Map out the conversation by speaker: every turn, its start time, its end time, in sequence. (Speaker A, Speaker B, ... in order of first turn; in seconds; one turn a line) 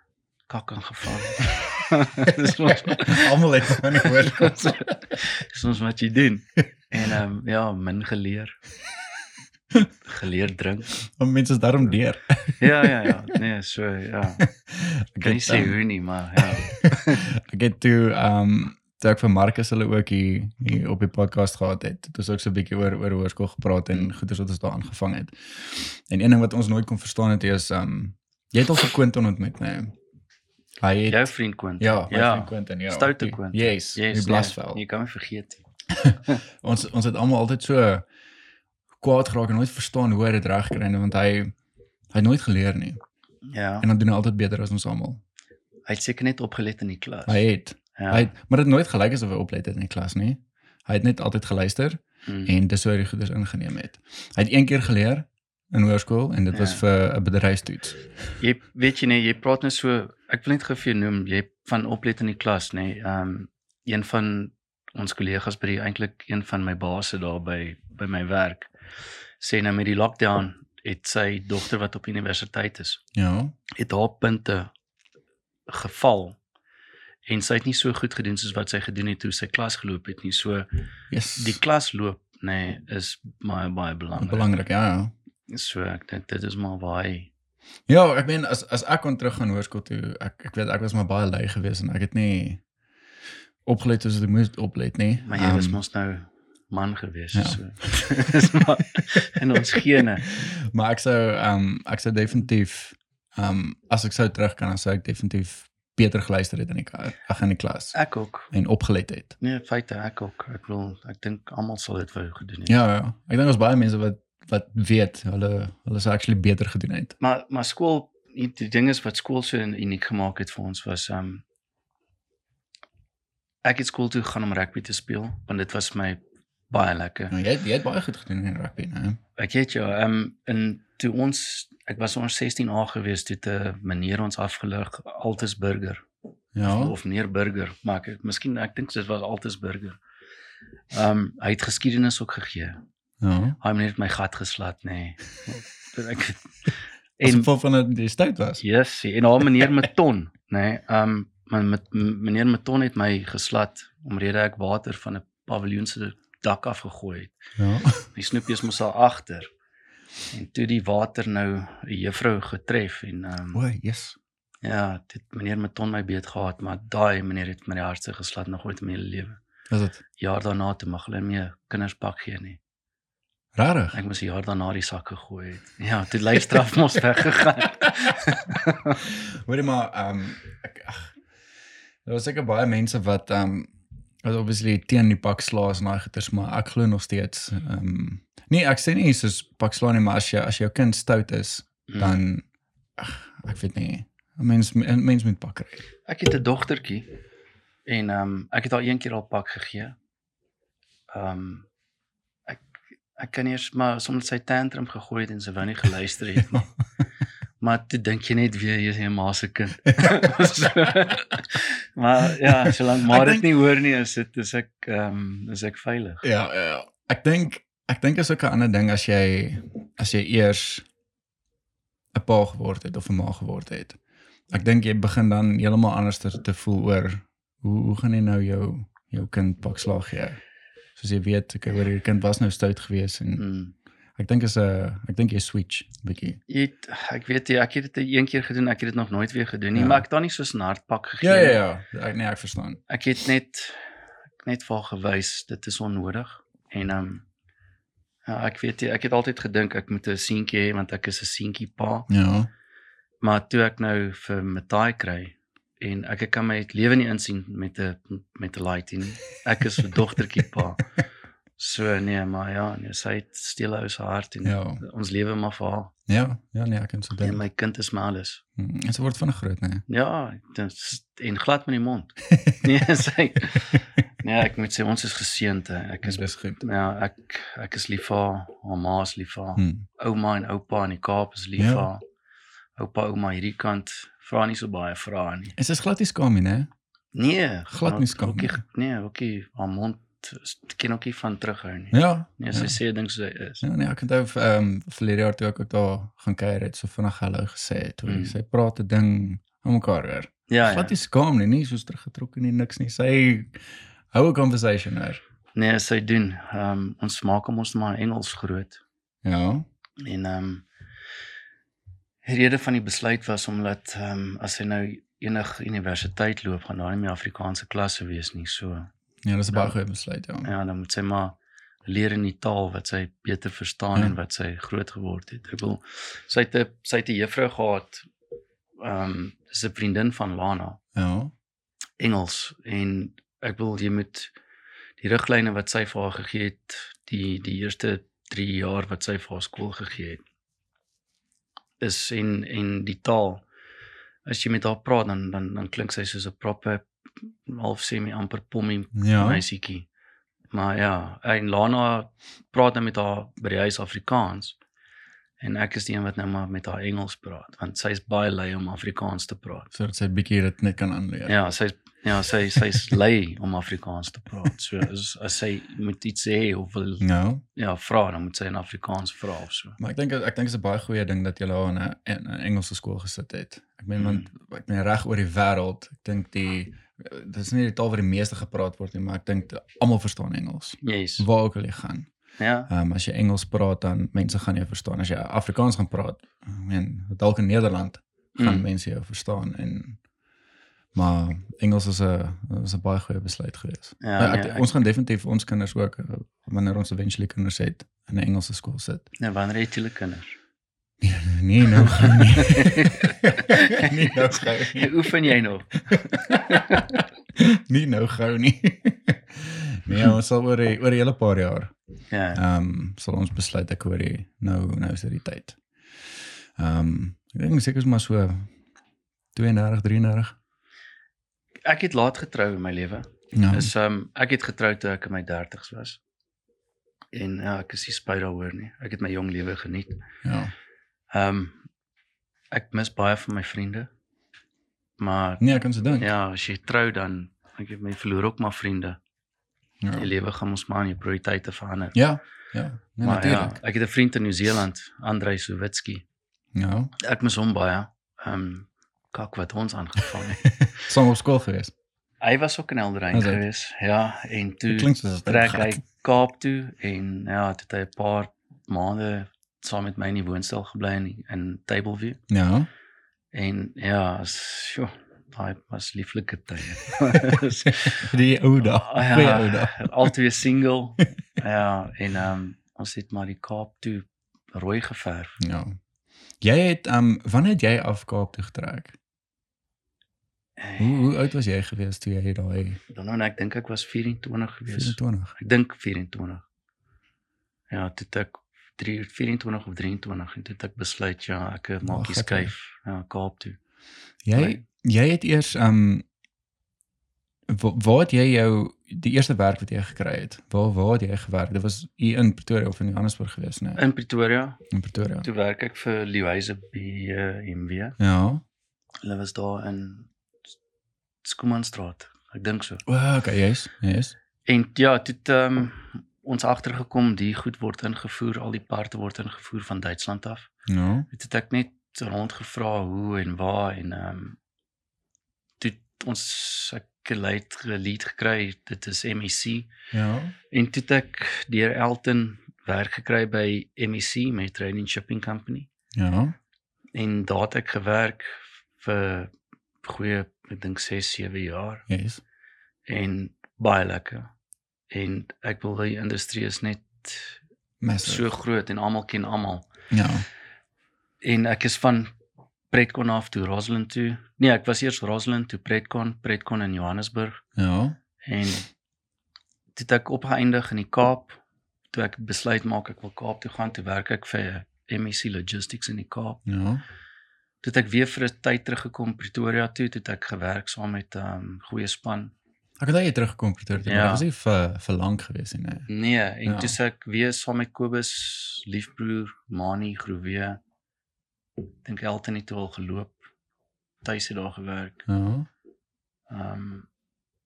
Speaker A: 0.5-8.6
Speaker B: 2.7-4.9
Speaker A: 10.1-11.0
Speaker B: 11.0-13.2
Speaker A: 12.6-14.4
Speaker B: 14.4-15.8
Speaker A: 15.2-17.2
Speaker B: 16.4-29.9
Speaker B: 30.8-34.8
Speaker A: 31.1-35.6
Speaker B: 35.9-38.0
Speaker B: 39.0-41.5
Speaker B: 42.1-43.0
Speaker A: 43.5-43.9
Speaker B: 43.8-45.2
Speaker A: 45.9-47.4
Speaker B: 47.3-58.0
Speaker A: 48.0-48.3
Speaker A: 52.3-52.5
Speaker A: 56.5-56.8
Speaker A: 58.4-68.7
Speaker A: 69.4-73.0
Speaker B: 73.1-73.5
Speaker A: 73.7-74.7
Speaker A: 75.7-76.4
Speaker A: 77.3-80.7
Speaker B: 81.1-81.6
Speaker A: 81.4-84.5
Speaker B: 84.2-85.1
Speaker A: 85.5-87.3
Speaker B: 87.9-92.6
Speaker B: 93.7-95.8
Speaker A: 95.3-100.2
Speaker B: 97.3-98.3
Speaker B: 100.2-107.9
Speaker A: 107.9-108.5
Speaker B: 108.5-109.3
Speaker A: 109.4-112.8
Speaker B: 112.7-117.2
Speaker A: 117.2-121.4
Speaker A: 123.6-127.4
Speaker B: 127.3-129.2
Speaker A: 129.4-136.1
Speaker B: 136.6-136.9
Speaker A: 136.6-140.0
Speaker A: 140.9-142.8
Speaker B: 143.2-143.6
Speaker A: 143.6-146.5
Speaker A: 147.2-147.5
Speaker B: 147.2-148.6
Speaker A: 148.6-157.4
Speaker B: 149.4-149.7
Speaker B: 157.6-158.1
Speaker A: 158.1-159.5
Speaker A: 160.3-163.6
Speaker B: 163.5-164.2
Speaker A: 164.6-169.4
Speaker B: 169.7-170.0
Speaker A: 170.2-172.6
Speaker B: 173.6-174.0
Speaker A: 173.9-179.0
Speaker B: 179.0-181.1
Speaker B: 182.1-183.7
Speaker B: 184.2-192.4
Speaker A: 191.9-192.2
Speaker B: 193.0-195.8
Speaker A: 196.1-197.2
Speaker A: 197.9-200.0
Speaker A: 201.1-201.7
Speaker A: 203.2-206.7
Speaker A: 207.6-216.3
Speaker B: 212.4-213.5
Speaker B: 216.2-220.8
Speaker B: 222.1-224.0
Speaker B: 224.5-230.4
Speaker B: 231.0-233.4
Speaker A: 233.4-233.7
Speaker B: 234.2-236.4
Speaker A: 236.5-241.6
Speaker B: 239.8-240.1
Speaker B: 241.2-242.8
Speaker A: 242.9-243.8
Speaker A: 244.4-247.2
Speaker A: 248.3-252.1
Speaker B: 252.1-252.5
Speaker A: 253.2-260.9
Speaker A: 261.6-265.9
Speaker B: 264.4-264.8
Speaker B: 266.1-267.4
Speaker A: 267.2-268.4
Speaker B: 268.6-269.8
Speaker A: 269.9-282.0
Speaker B: 272.3-272.6
Speaker B: 276.0-276.6
Speaker B: 279.6-279.9
Speaker B: 281.6-281.9
Speaker A: 282.8-285.5
Speaker B: 285.6-286.7
Speaker A: 287.1-293.6
Speaker B: 287.7-288.6
Speaker B: 291.9-292.8
Speaker B: 293.6-305.2
Speaker A: 298.1-298.4
Speaker A: 300.5-300.9
Speaker A: 305.6-308.8
Speaker B: 309.2-309.7
Speaker A: 310.0-310.7
Speaker A: 312.2-318.9
Speaker B: 319.2-320.5
Speaker A: 320.4-328.1
Speaker A: 328.8-330.8
Speaker B: 331.0-331.3
Speaker A: 332.0-334.3
Speaker A: 335.0-340.2
Speaker A: 341.8-343.4
Speaker A: 344.2-349.9
Speaker B: 348.9-349.4
Speaker A: 350.5-354.6
Speaker A: 355.4-359.7
Speaker B: 359.7-361.4
Speaker A: 361.3-369.8
Speaker B: 367.0-367.4
Speaker B: 369.8-382.1
Speaker A: 374.0-374.3
Speaker A: 380.8-381.3
Speaker A: 382.4-382.7
Speaker B: 382.7-390.0
Speaker A: 388.4-388.6
Speaker B: 390.9-399.1
Speaker A: 394.0-394.7
Speaker A: 399.2-400.4
Speaker B: 401.0-405.1
Speaker A: 401.8-407.0
Speaker B: 405.9-411.7
Speaker A: 412.1-412.4
Speaker B: 412.3-415.6
Speaker B: 416.6-418.5
Speaker B: 419.4-420.4
Speaker A: 421.6-426.0
Speaker B: 423.3-423.7
Speaker A: 427.1-430.0
Speaker B: 430.2-430.5
Speaker A: 431.1-431.6
Speaker A: 432.5-433.9
Speaker A: 435.0-439.0
Speaker B: 435.4-436.1
Speaker B: 439.8-440.1
Speaker A: 439.9-442.0
Speaker B: 441.9-443.6
Speaker A: 443.0-446.1
Speaker B: 446.6-446.9
Speaker A: 447.0-450.5
Speaker B: 450.5-451.7
Speaker A: 452.2-462.2
Speaker B: 453.1-453.4
Speaker B: 454.7-455.8
Speaker B: 462.3-462.7
Speaker A: 463.3-475.4
Speaker B: 467.7-470.1
Speaker B: 475.4-475.8
Speaker B: 476.4-479.0
Speaker A: 480.6-481.0
Speaker B: 480.8-482.8
Speaker A: 482.9-486.4
Speaker B: 484.7-485.4
Speaker A: 487.7-493.6
Speaker B: 491.8-492.5
Speaker B: 494.2-496.1
Speaker A: 494.4-494.6
Speaker B: 497.5-503.8
Speaker A: 503.8-504.6
Speaker B: 504.7-505.3
Speaker A: 505.2-508.0
Speaker B: 508.0-508.4
Speaker A: 509.0-510.1
Speaker A: 511.2-512.8
Speaker B: 512.9-514.1
Speaker A: 514.5-520.5
Speaker B: 520.7-521.1
Speaker A: 521.1-524.4
Speaker A: 525.6-529.7
Speaker B: 529.9-530.4
Speaker A: 530.5-535.7
Speaker B: 535.9-536.4
Speaker A: 537.0-539.3
Speaker A: 539.8-541.9
Speaker B: 541.9-542.2
Speaker A: 542.9-544.3
Speaker A: 544.9-547.4
Speaker B: 547.8-548.2
Speaker A: 548.0-549.7
Speaker B: 549.9-550.2
Speaker A: 551.2-552.1
Speaker A: 552.7-557.4
Speaker B: 557.6-558.0
Speaker A: 558.2-558.7
Speaker A: 559.8-561.4
Speaker A: 561.9-566.5
Speaker B: 566.5-566.8
Speaker A: 567.6-572.3
Speaker B: 572.8-575.9
Speaker A: 573.8-574.2
Speaker A: 575.9-580.6
Speaker B: 576.5-576.7
Speaker A: 581.8-583.2
Speaker A: 584.0-585.1
Speaker B: 585.1-585.5
Speaker A: 586.3-586.9